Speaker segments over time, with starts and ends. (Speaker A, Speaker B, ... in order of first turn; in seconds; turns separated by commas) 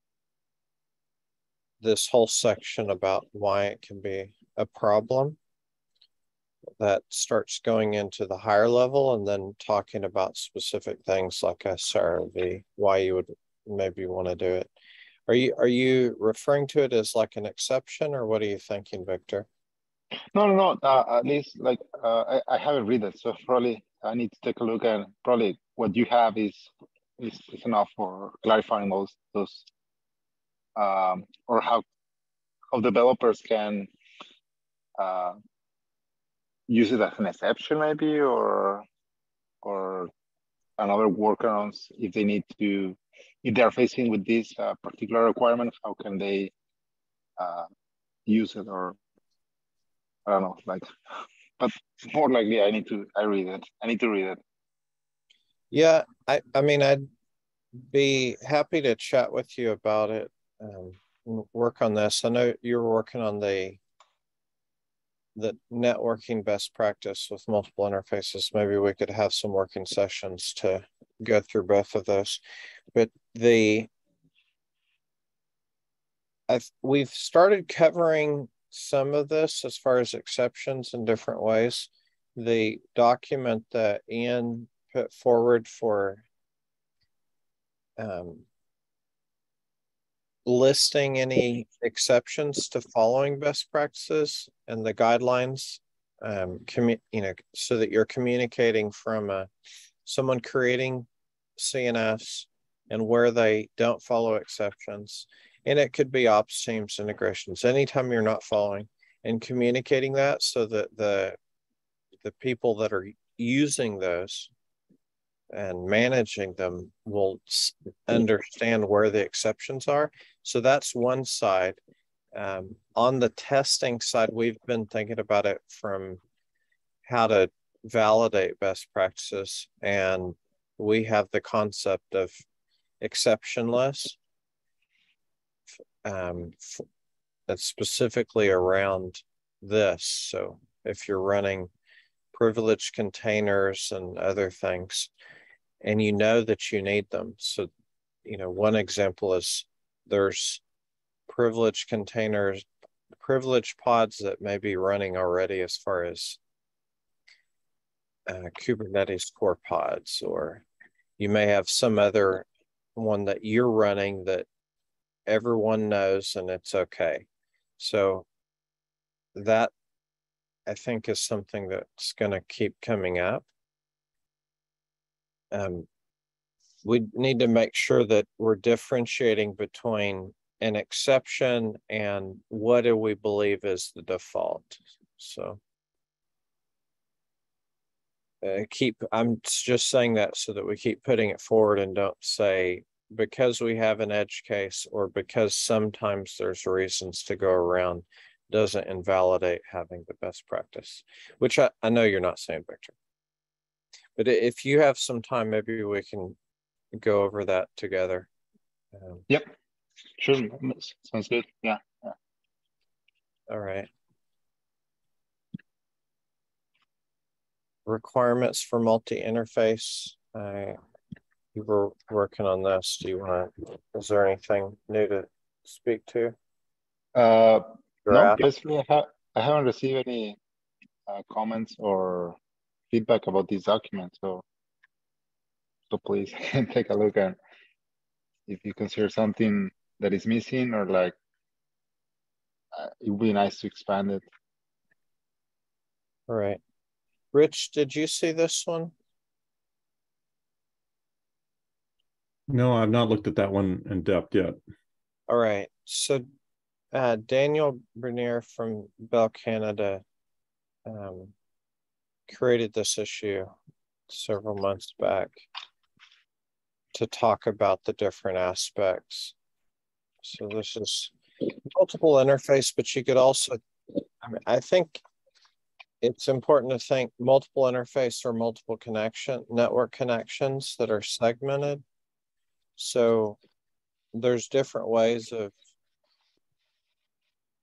Speaker A: 1.8-5.4, Speaker A: 6.8-14.7, Speaker A: 15.3-19.5, Speaker B: 20.4-29.7, Speaker B: 30.8-31.8, Speaker B: 32.7-33.9, Speaker B: 35.0-35.4, Speaker B: 36.7-38.9, Speaker B: 39.6-40.1, Speaker B: 40.8-46.5, Speaker B: 47.4-47.7, Speaker B: 48.3-49.0, Speaker B: 50.3-50.9, Speaker B: 51.6-54.4, Speaker A: 55.7-57.1, Speaker A: 57.8-63.8, Speaker A: 65.4-72.4, Speaker A: 72.9-73.9, Speaker A: 76.5-86.2, Speaker A: 88.0-88.5, Speaker A: 90.5-99.5, Speaker A: 100.0-111.4, Speaker A: 112.2-114.5, Speaker A: 115.5-121.8, Speaker A: 122.3-126.2, Speaker A: 127.0-132.4, Speaker A: 133.0-134.2, Speaker A: 136.0-136.8, Speaker A: 137.5-141.7, Speaker A: 142.3-145.1, Speaker A: 145.8-147.7, Speaker A: 148.2-150.6, Speaker A: 151.3-156.4, Speaker A: 158.3-160.7, Speaker A: 161.2-164.5, Speaker A: 165.3-167.3, Speaker A: 167.8-168.3, Speaker A: 169.3-169.7, Speaker A: 170.7-173.5, Speaker A: 175.5-175.9, Speaker A: 176.8-185.6, Speaker A: 188.4-202.9, Speaker A: 204.2-206.4, Speaker A: 206.9-208.3, Speaker A: 208.9-209.2, Speaker B: 210.2-212.2, Speaker A: 213.5-213.9, Speaker A: 217.9-220.8, Speaker A: 221.5-226.4, Speaker B: 227.2-230.4, Speaker A: 228.1-228.4, Speaker B: 231.1-232.4, Speaker B: 232.9-234.4, Speaker B: 235.9-237.4, Speaker B: 238.5-241.2, Speaker B: 242.7-244.2, Speaker A: 246.3-246.6, Speaker A: 247.3-248.9, Speaker C: 252.5-254.6, Speaker A: 255.3-256.3, Speaker A: 256.9-260.0, Speaker A: 260.9-261.3, Speaker A: 262.3-263.6, Speaker A: 264.1-265.4, Speaker A: 266.9-269.4, Speaker A: 270.2-271.1, Speaker A: 271.7-273.6, Speaker A: 274.2-275.0, Speaker A: 276.0-281.8, Speaker A: 282.8-283.4, Speaker A: 284.1-285.6